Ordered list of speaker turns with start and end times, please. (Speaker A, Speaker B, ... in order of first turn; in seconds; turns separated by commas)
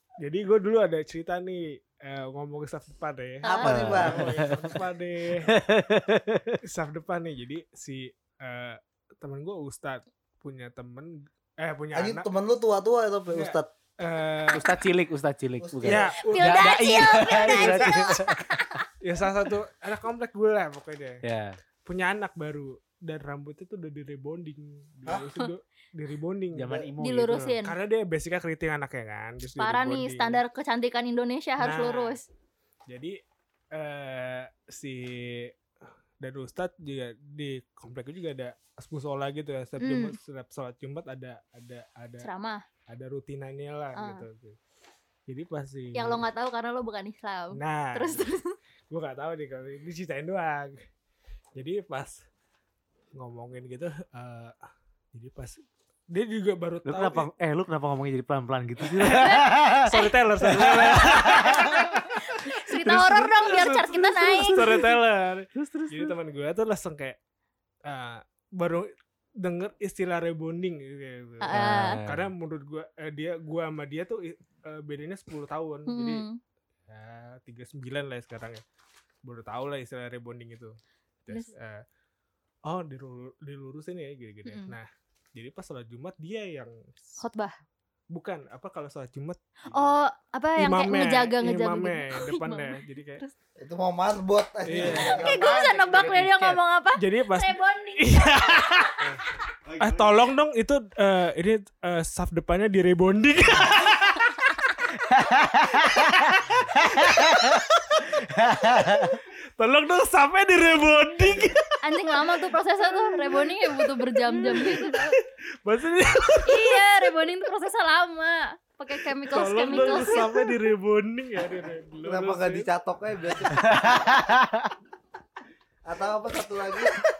Speaker A: 0.2-5.5, Speaker B: 3.4-3.8, Speaker C: 3.5-4.3, Speaker D: 3.6-4.7, Speaker D: 5.4-6.6, Speaker A: 6.6-12.3, Speaker C: 11.9-13.7, Speaker A: 13.3-14.7, Speaker D: 14.5-18.6, Speaker C: 15.6-16.1, Speaker A: 15.8-18.1, Speaker B: 16.2-18.8, Speaker A: 19.0-21.2, Speaker D: 21.2-21.6, Speaker A: 21.9-26.8, Speaker D: 26.5-27.6, Speaker B: 27.0-27.8, Speaker A: 27.6-30.4, Speaker B: 29.6-32.3, Speaker A: 31.6-32.2, Speaker A: 32.9-33.2, Speaker A: 33.7-35.5, Speaker A: 36.2-42.3, Speaker B: 39.8-40.2, Speaker B: 42.2-42.6, Speaker A: 42.9-44.6, Speaker B: 44.0-44.3, Speaker A: 45.3-46.2, Speaker B: 46.0-48.5, Speaker A: 47.5-48.3, Speaker A: 48.9-50.8, Speaker A: 51.6-52.2, Speaker A: 53.1-54.5, Speaker A: 55.1-57.3, Speaker D: 56.9-62.0, Speaker A: 58.8-62.1, Speaker B: 59.2-60.1, Speaker B: 61.5-64.8, Speaker A: 62.7-67.2, Speaker D: 64.3-64.9, Speaker D: 65.5-66.1, Speaker A: 67.8-76.2, Speaker B: 71.4-72.0, Speaker D: 71.5-72.3, Speaker B: 75.9-76.4, Speaker A: 76.9-78.6, Speaker A: 79.2-81.8, Speaker A: 82.7-87.2, Speaker B: 84.5-84.8, Speaker B: 87.2-87.6, Speaker A: 88.1-90.0, Speaker B: 89.7-93.3, Speaker A: 90.6-93.2, Speaker C: 93.6-96.4, Speaker A: 94.7-96.1, Speaker B: 94.8-99.1, Speaker D: 95.3-96.4, Speaker A: 97.0-104.7, Speaker D: 105.0-109.2, Speaker A: 109.6-112.3, Speaker B: 111.8-115.2, Speaker A: 112.8-116.9, Speaker B: 116.5-120.5, Speaker A: 119.1-122.7, Speaker C: 122.0-124.1, Speaker D: 123.5-124.7, Speaker C: 125.8-127.0